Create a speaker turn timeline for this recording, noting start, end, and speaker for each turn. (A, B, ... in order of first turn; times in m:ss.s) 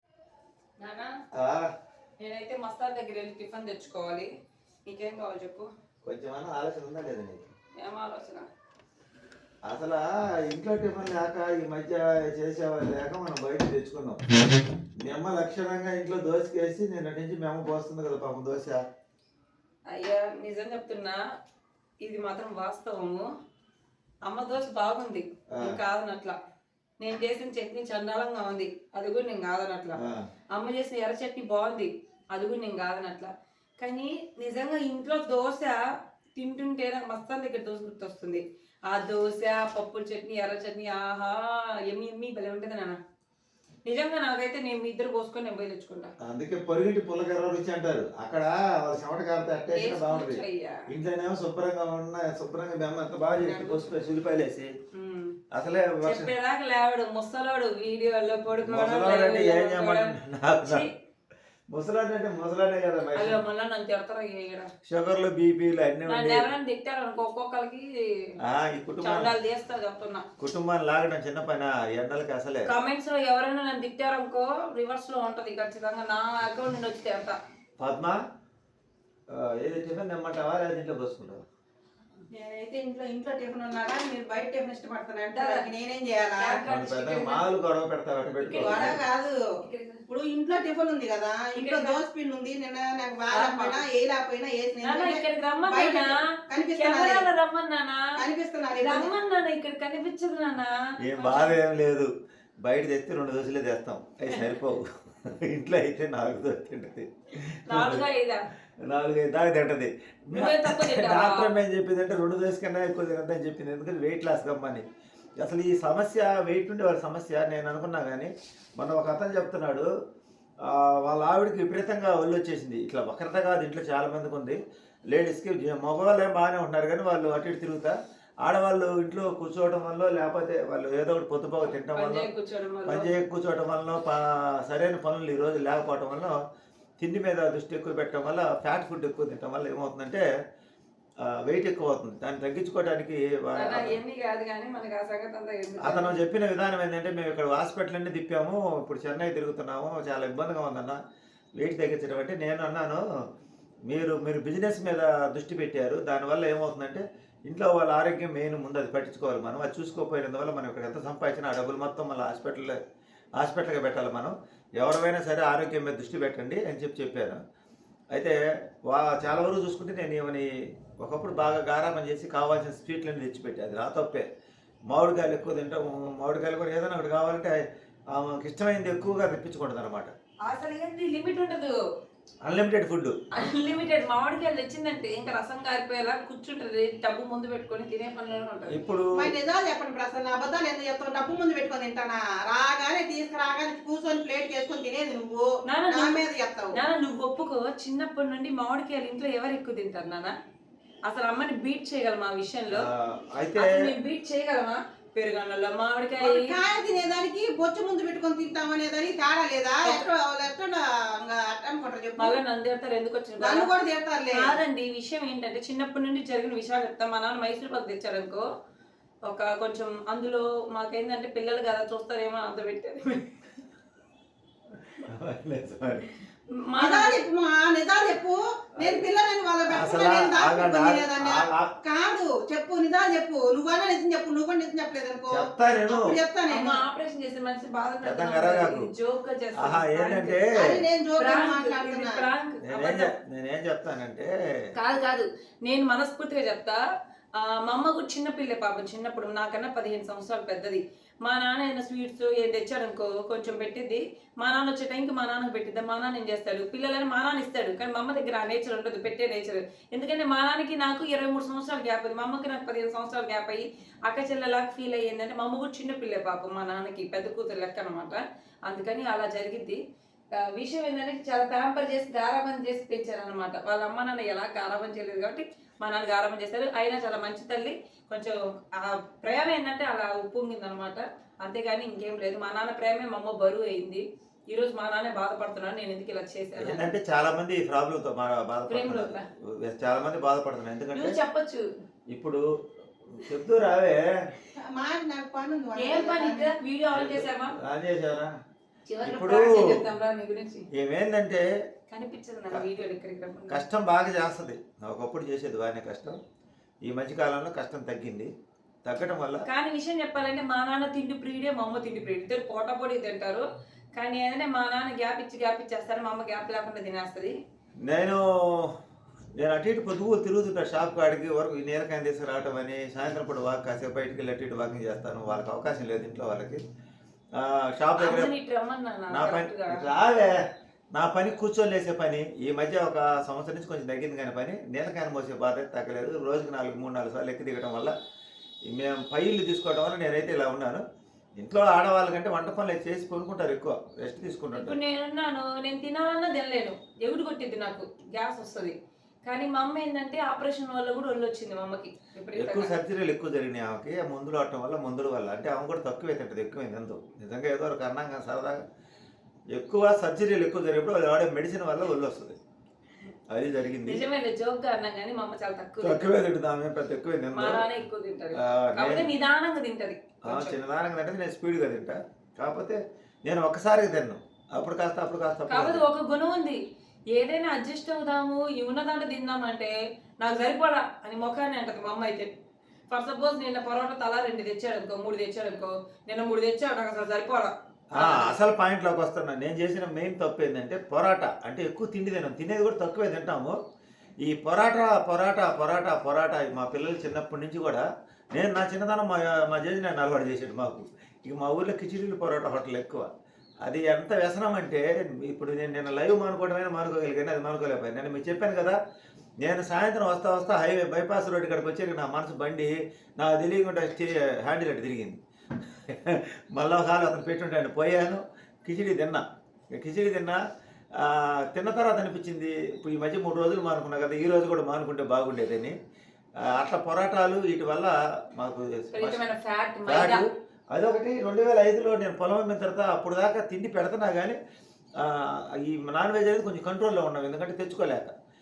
0:00.8-0:01.2 A
0:01.3-0:01.7 B
0:02.2-0:04.3 A
0:04.9-0:05.7 A
0:06.0-0:07.5 B
0:07.8-0:08.5 A
0:09.6-0:14.2 B
0:15.0-0:18.8 B
0:19.9-0:21.2 A
0:22.0-0:23.2 A
0:24.2-0:26.4 A
0:25.5-0:25.8 B
0:27.0-0:30.0 A
0:30.0-0:30.3 B
0:30.5-0:35.8 A
0:36.4-0:43.0 A
0:43.8-0:46.1 A
0:46.2-0:54.7 B
0:49.7-0:50.9 A
0:53.4-0:53.8 A
0:54.9-0:55.4 A
0:55.5-0:56.3 B
0:56.0-1:00.9 A
0:58.6-1:00.9 B
1:01.7-1:03.4 B
1:03.2-1:04.7 A
1:04.9-1:06.5 B
1:06.1-1:08.3 A
1:08.4-1:09.3 B
1:09.0-1:10.3 A
1:10.4-1:12.7 B
1:12.7-1:17.4 A
1:17.8-1:18.2 B
1:19.3-1:21.4 B
1:22.3-1:26.7 C
1:25.3-1:25.6 A
1:26.4-1:27.5 A
1:26.6-1:29.0 B
1:28.4-1:30.0 A
1:28.6-1:29.4 C
1:30.1-1:37.3 C
1:31.6-1:32.0 A
1:33.3-1:33.8 A
1:34.8-1:38.0 A
1:38.2-1:39.1 C
1:38.7-1:41.6 A
1:41.0-1:42.1 B
1:42.6-1:48.0 B
1:47.7-1:48.4 A
1:48.8-1:54.9 B
1:50.3-1:51.5 A
1:55.4-1:59.9 B
2:00.6-2:04.6 B
2:05.1-2:12.3 B
2:11.7-2:13.1 A
2:12.9-2:16.4 B
2:17.0-2:20.2 B
2:21.2-2:24.0 B
2:23.6-2:26.2 A
2:25.8-2:31.0 B
2:31.6-2:33.0 B
2:33.9-2:42.8 B
2:43.4-2:47.4 B
2:48.1-2:54.3 B
2:54.9-2:57.6 B
2:58.1-3:00.1 B
3:00.4-3:01.8 A
3:02.4-3:03.2 B
3:03.3-3:08.8 A
3:08.7-3:09.3 B
3:09.2-3:16.8 C
3:15.7-3:16.2 A
3:16.7-3:20.3 A
3:21.1-3:22.9 A
3:22.7-3:23.8 B
3:23.6-3:26.6 A
3:26.2-3:32.4 C
3:32.2-3:33.7 A
3:33.4-3:34.6 C
3:34.3-3:38.4 A
3:39.3-3:43.3 A
3:44.9-3:46.1 B
3:46.6-3:47.2 A
3:46.8-3:56.8 C
3:48.8-3:49.1 B
3:49.7-3:51.7 B
3:55.3-3:56.2 B
3:56.5-4:00.4 A
3:58.0-3:58.9 B
3:59.6-4:00.8 B
4:00.6-4:02.3 C
4:01.2-4:03.1 A
4:02.6-4:04.3 B
4:04.8-4:06.8 A
4:07.4-4:29.8 A
4:30.4-4:46.8 A
4:46.6-4:51.2 B
4:48.7-4:49.3 A
4:50.9-4:51.6 A
4:52.1-4:52.4 B
4:53.1-4:54.0 B
4:54.6-4:56.5 C
4:55.8-4:57.6 A
4:56.9-4:58.3 B
4:58.9-5:00.7 A
4:59.0-4:59.8 B
5:00.8-5:01.5 B
5:01.9-5:03.6 A
5:03.5-5:06.2 B
5:06.9-5:08.3 B
5:08.8-5:09.4 B
5:09.5-5:13.4 A
5:14.0-5:17.4 A
5:17.8-5:18.8 B
5:19.4-5:26.6 B
5:27.4-5:28.3 B
5:28.0-5:29.9 A
5:29.1-5:30.4 B
5:31.0-5:37.9 B
5:38.7-5:40.8 B
5:41.4-5:44.8 B
5:44.5-5:52.7 A
5:52.4-5:58.6 B
5:59.5-6:02.4 B
6:03.3-6:04.1 B
6:03.8-6:06.2 A
6:05.8-6:07.7 B
6:07.3-6:10.6 A
6:08.3-6:09.1 B
6:10.3-6:15.8 B
6:15.5-6:16.6 A
6:17.1-6:22.3 A
6:22.9-6:28.4 A
6:28.0-6:33.6 B
6:34.2-6:43.1 B
6:43.6-6:48.8 B
6:49.4-7:00.4 B
7:01.0-7:05.8 B
7:06.4-7:09.3 B
7:08.9-7:10.2 A
7:09.9-7:14.4 B
7:15.0-7:18.1 B